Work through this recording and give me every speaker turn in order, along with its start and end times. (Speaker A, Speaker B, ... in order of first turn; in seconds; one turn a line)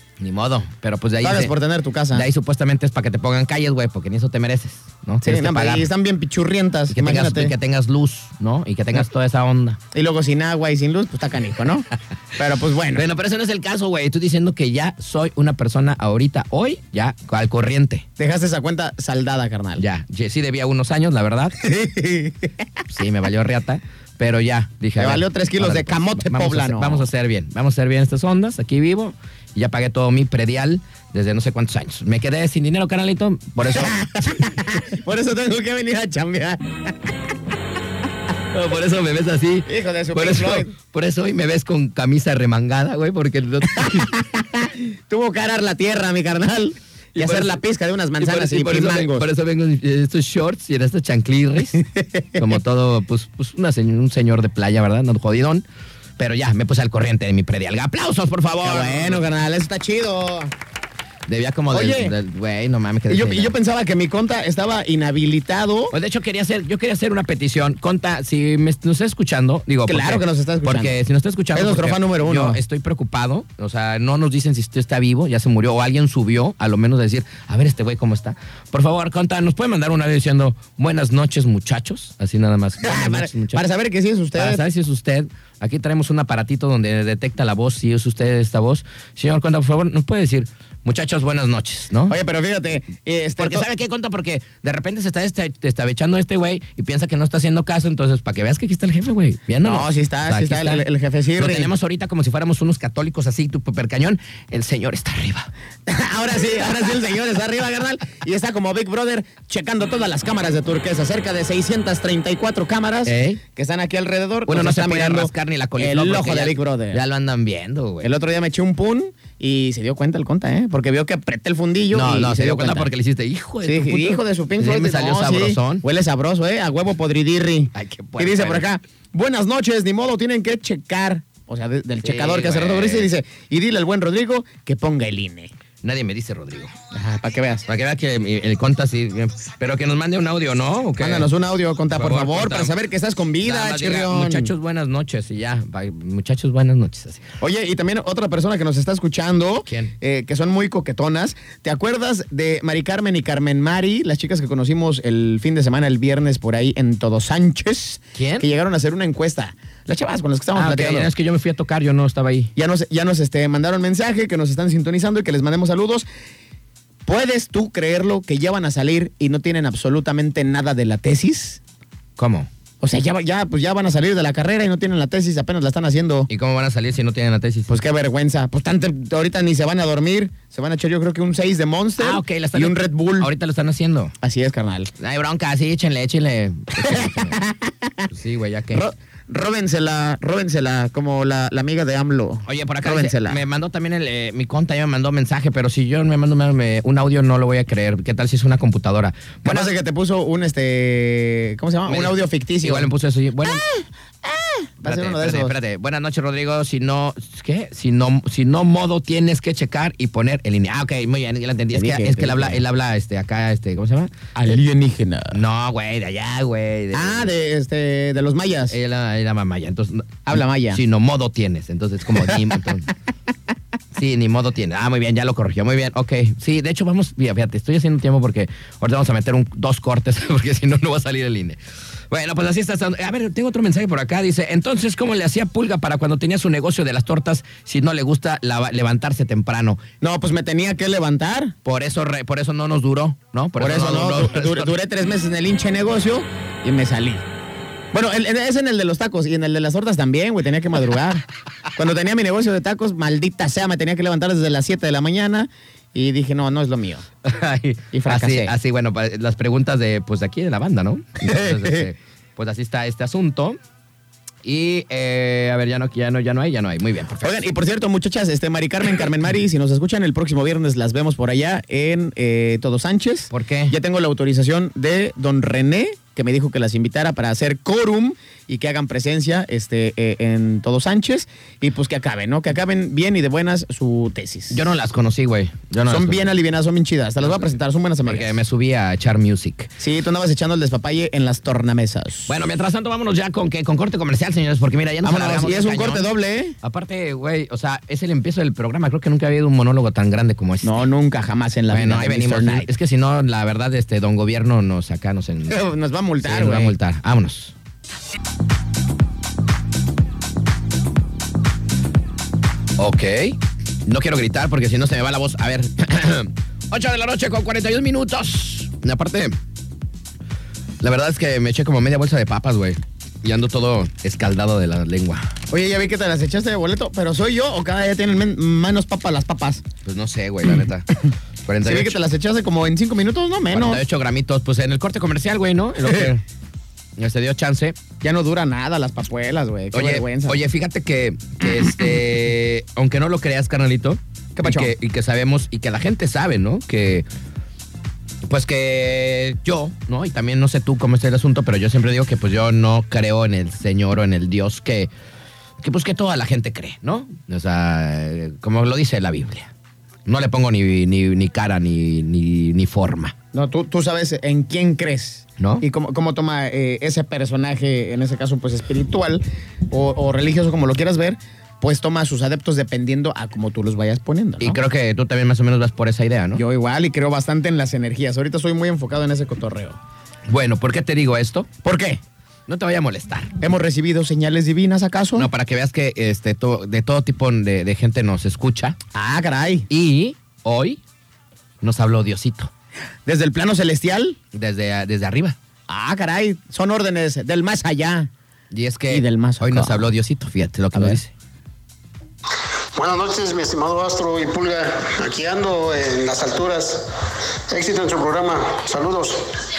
Speaker A: 0.2-1.5
Speaker B: 1.2-2.3
Speaker A: 2.1-5.9
Speaker B: 5.2-7.5
Speaker A: 6.9-9.8
Speaker B: 9.9-13.1
Speaker A: 12.9-18.1
Speaker B: 18.2-19.8
Speaker A: 19.8-21.6
Speaker B: 21.6-22.7
Speaker A: 22.9-34.6
Speaker B: 25.0-27.1
Speaker B: 33.8-37.1
Speaker A: 38.5-44.1
Speaker B: 39.7-40.7
Speaker B: 43.8-49.3
Speaker A: 47.1-47.6
Speaker A: 48.2-55.6
Speaker B: 51.8-52.5
Speaker A: 56.2-59.2
Speaker B: 58.6-60.5
Speaker A: 61.3-63.5
Speaker B: 61.7-62.1
Speaker B: 63.1-65.9
Speaker A: 65.9-83.6
Speaker B: 69.9-71.0
Speaker B: 71.5-72.6
Speaker B: 82.8-84.6
Speaker A: 84.3-92.2
Speaker B: 92.1-93.7
Speaker A: 93.4-100.8
Speaker B: 99.6-101.7
Speaker A: 101.4-105.5
Speaker B: 105.9-117.0
Speaker A: 113.0-113.4
Speaker A: 114.5-118.1
Speaker B: 118.0-122.9
Speaker A: 121.9-125.8
Speaker B: 123.7-135.5
Speaker A: 127.7-128.7
Speaker A: 132.0-133.1
Speaker A: 135.8-136.7
Speaker B: 136.9-137.7
Speaker A: 137.7-141.3
Speaker B: 141.0-144.5
Speaker A: 141.9-142.7
Speaker A: 143.4-147.3
Speaker B: 147.4-161.1
Speaker A: 149.7-149.9
Speaker A: 158.2-158.5
Speaker A: 160.6-162.5
Speaker B: 162.6-166.1
Speaker B: 167.1-171.6
Speaker A: 172.2-172.5
Speaker B: 172.8-176.3
Speaker A: 176.3-177.8
Speaker B: 177.7-183.3
Speaker A: 182.0-184.1
Speaker B: 184.2-184.9
Speaker A: 185.0-187.4
Speaker B: 186.8-188.1
Speaker A: 188.1-188.9
Speaker B: 188.7-193.4
Speaker A: 192.5-199.8
Speaker B: 199.4-202.9
Speaker A: 201.9-203.7
Speaker B: 203.4-205.6
Speaker A: 204.8-214.1
Speaker B: 211.7-212.6
Speaker B: 214.3-215.4
Speaker A: 215.3-217.3
Speaker B: 216.9-218.8
Speaker A: 218.7-222.9
Speaker B: 220.3-220.8
Speaker B: 222.2-222.5
Speaker A: 223.9-231.6
Speaker A: 232.1-239.8
Speaker B: 240.0-241.6
Speaker A: 241.7-244.7
Speaker B: 243.6-247.3
Speaker B: 247.9-251.2
Speaker B: 251.8-257.1
Speaker A: 257.2-263.6
Speaker B: 257.9-258.5
Speaker B: 261.2-261.9
Speaker A: 264.4-267.4
Speaker B: 267.2-284.6
Speaker A: 273.3-273.8
Speaker A: 284.5-286.3
Speaker B: 285.9-288.3
Speaker A: 288.1-289.7
Speaker B: 289.8-292.3
Speaker A: 292.3-296.1
Speaker B: 295.0-296.6
Speaker A: 296.6-300.9
Speaker B: 300.6-302.7
Speaker A: 301.7-305.6
Speaker B: 305.5-306.8
Speaker A: 306.2-307.5
Speaker A: 312.8-319.4
Speaker A: 320.8-325.3
Speaker B: 325.5-329.6
Speaker A: 329.9-330.9
Speaker A: 331.4-332.0
Speaker B: 331.6-333.8
Speaker A: 333.5-336.2
Speaker A: 337.0-337.8
Speaker B: 338.0-340.4
Speaker A: 339.7-347.1
Speaker B: 344.4-344.7
Speaker A: 348.2-354.9
Speaker A: 355.6-359.5
Speaker A: 360.1-363.1
Speaker B: 363.3-374.6
Speaker A: 365.4-365.6
Speaker A: 374.4-376.4
Speaker B: 376.4-379.8
Speaker A: 380.3-381.5
Speaker B: 381.6-382.0
Speaker A: 382.5-383.4
Speaker B: 383.4-385.3
Speaker A: 385.2-388.8
Speaker B: 388.9-389.7
Speaker A: 389.7-390.8
Speaker A: 391.6-392.5
Speaker B: 393.1-394.2
Speaker A: 394.3-395.4
Speaker B: 395.7-398.1
Speaker A: 398.5-401.1
Speaker B: 398.9-399.9
Speaker B: 400.7-401.0
Speaker C: 402.8-406.9
Speaker C: 407.5-409.4